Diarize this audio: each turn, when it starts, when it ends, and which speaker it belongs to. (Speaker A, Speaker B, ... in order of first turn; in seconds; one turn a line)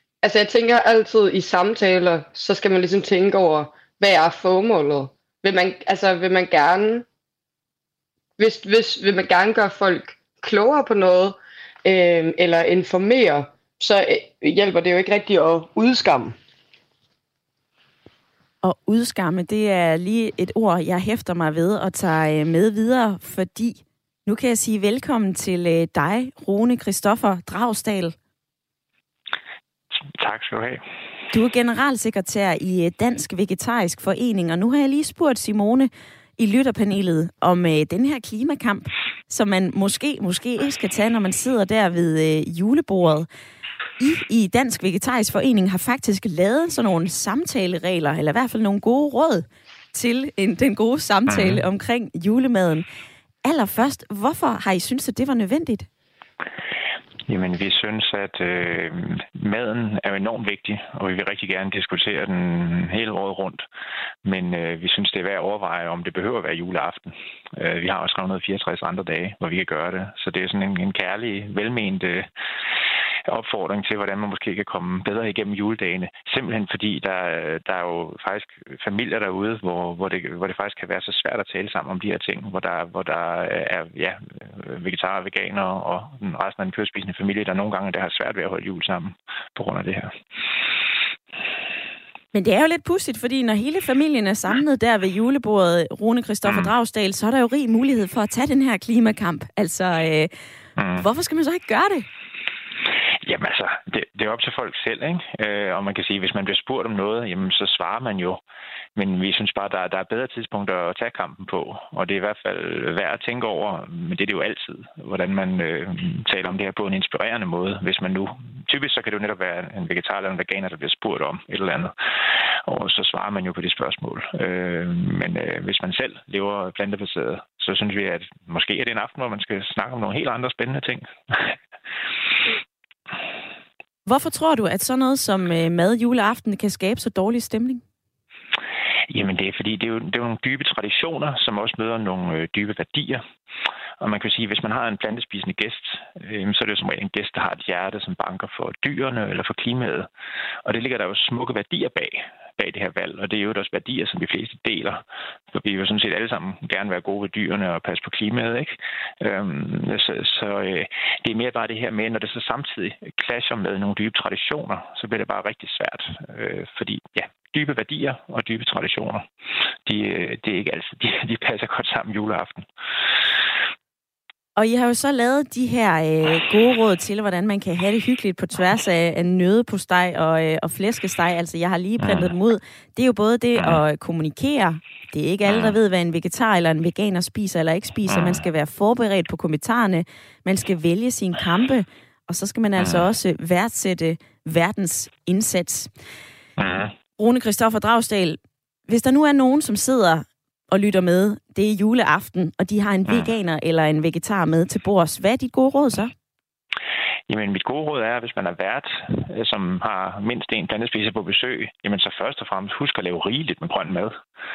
Speaker A: 0.2-7.0
Speaker A: 8.4-16.3
Speaker B: 18.6-28.1
Speaker C: 30.1-30.8
Speaker B: 31.3-43.3
Speaker B: 44.0-52.9
Speaker C: 51.3-51.6
Speaker B: 53.4-55.9
Speaker C: 57.3-63.6
Speaker C: 64.2-72.3
Speaker C: 73.3-90.1
Speaker B: 92.3-100.3
Speaker C: 96.5-96.7
Speaker C: 100.8-101.0
Speaker B: 101.0-102.1
Speaker C: 103.2-108.4
Speaker C: 108.9-121.9
Speaker C: 122.7-131.5
Speaker B: 134.1-137.8
Speaker C: 139.1-143.2
Speaker C: 144.0-150.1
Speaker C: 150.6-169.2
Speaker C: 169.8-172.7
Speaker B: 174.6-195.9
Speaker C: 182.0-182.3
Speaker C: 185.4-185.8
Speaker C: 188.1-188.4
Speaker C: 196.6-196.9
Speaker B: 197.2-206.1
Speaker C: 203.1-203.3
Speaker C: 207.3-214.2